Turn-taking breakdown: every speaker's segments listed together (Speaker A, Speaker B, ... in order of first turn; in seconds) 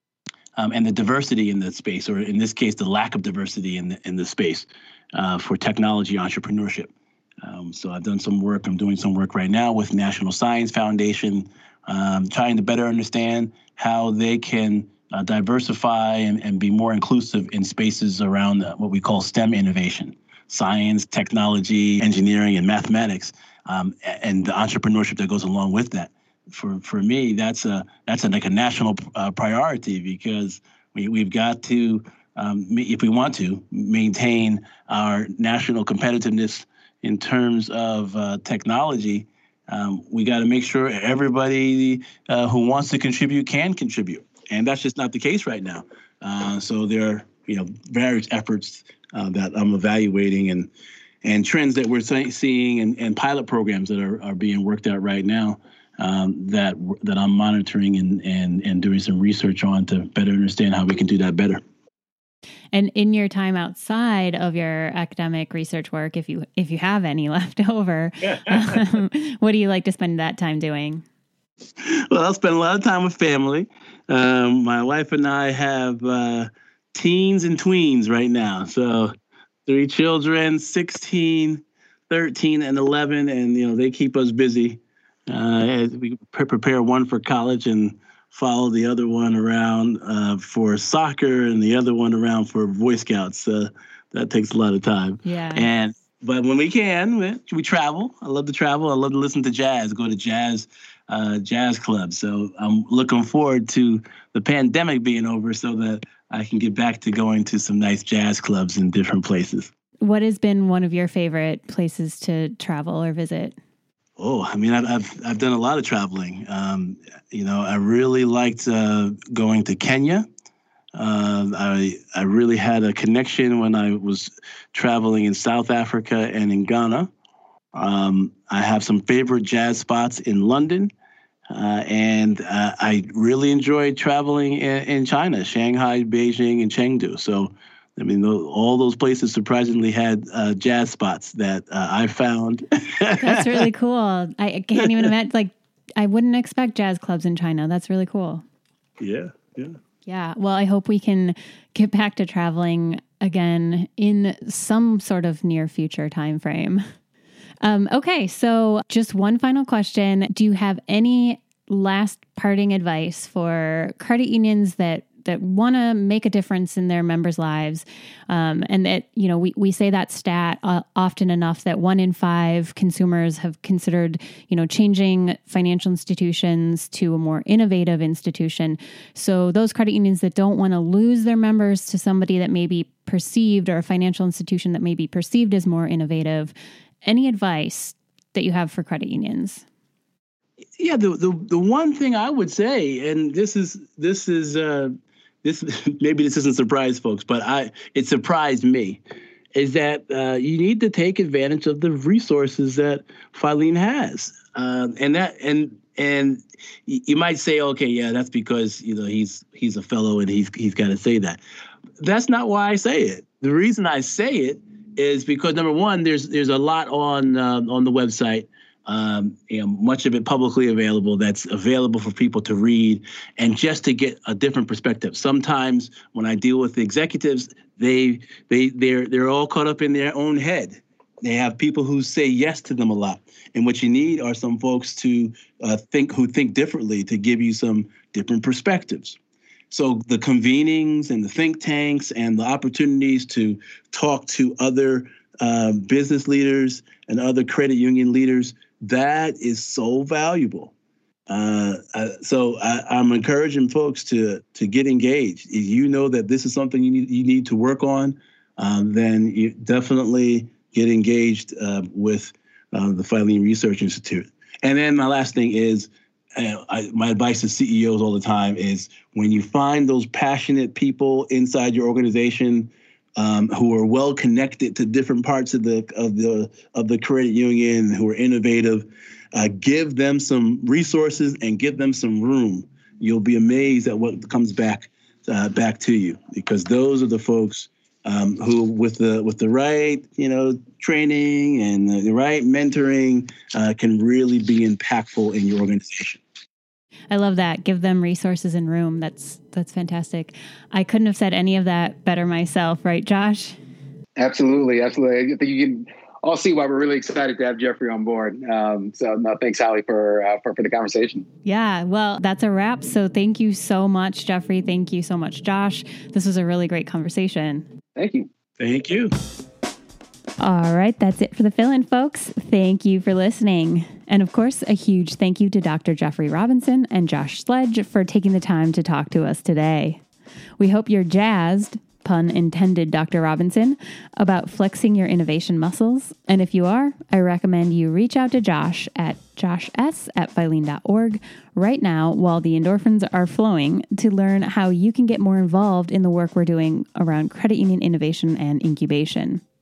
Speaker A: 0.6-50.7, 51.2-61.6, 68.5-68.7, 71.8-79.1, 79.7-109.7, 114.2-120.3, 121.0-127.1, 127.7-130.9, 131.5-143.6, 149.0-149.8, 190.8-194.9, 195.4-199.0, 199.6-211.4, 212.0-239.2, 239.7-250.7, 251.3-296.2, 318.6-319.1
Speaker B: 62.7-71.0, 95.2-95.7, 110.0-113.6, 143.2-148.4, 150.1-156.8, 157.6-189.7, 297.1-303.6, 311.4-317.7, 320.4-330.0, 330.6-349.4
Speaker C: 304.2-311.3, 318.0-318.3